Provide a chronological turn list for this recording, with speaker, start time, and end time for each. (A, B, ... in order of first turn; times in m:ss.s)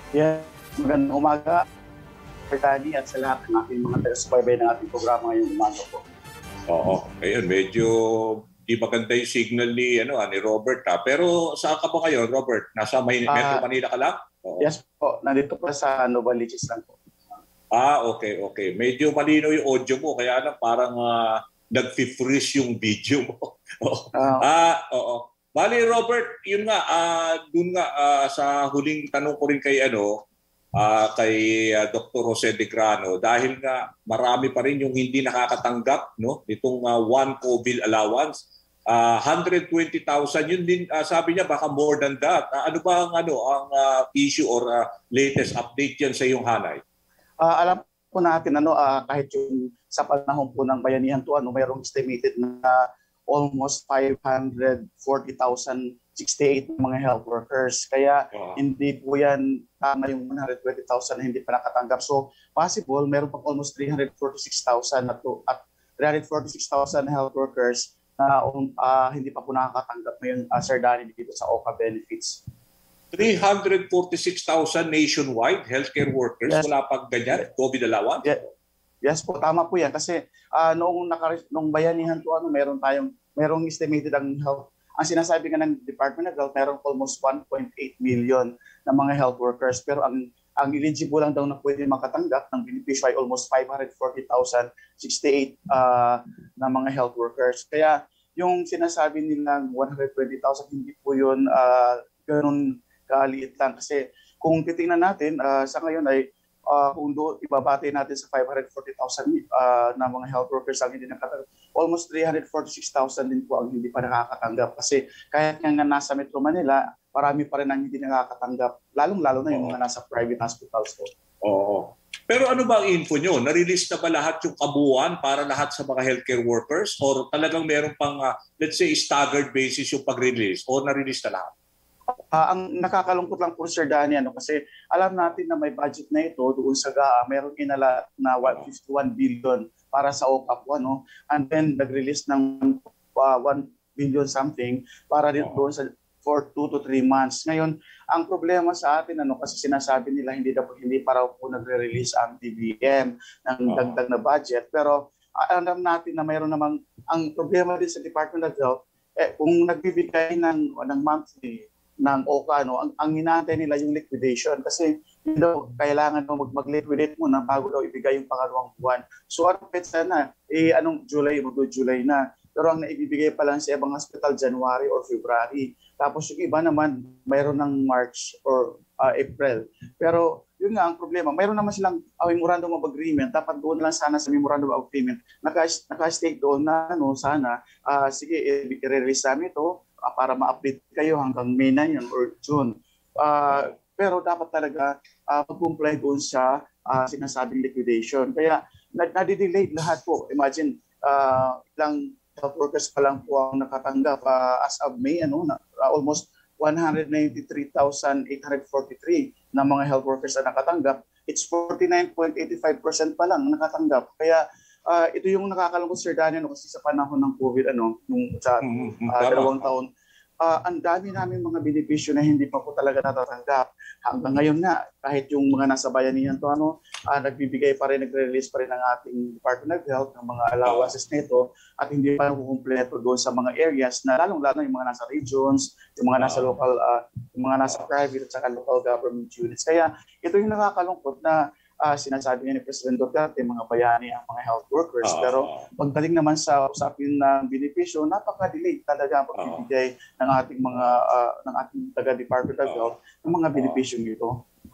0:00.1-0:01.6 A
0:02.5-0:06.0 A
0:06.7-0:14.7 B
0:13.3-0:13.6 A
0:14.6-0:16.9 A
0:17.7-0:30.2 B
0:24.1-0:24.5 A
0:30.8-0:46.8 B
0:47.4-1:12.4 A
0:58.3-0:58.6 B
1:13.1-1:18.5 B
1:19.0-2:01.1 A
1:59.5-1:59.8 B
2:01.4-2:11.5 B
2:12.3-3:39.9 A
2:33.7-2:34.0 B
3:38.6-3:39.7 B
3:40.4-4:14.3 A
3:50.6-3:50.9 B
3:56.2-3:56.5 B
4:05.0-4:05.6 B
4:09.4-4:09.6 B
4:12.6-4:12.9 B
4:13.5-4:13.8 B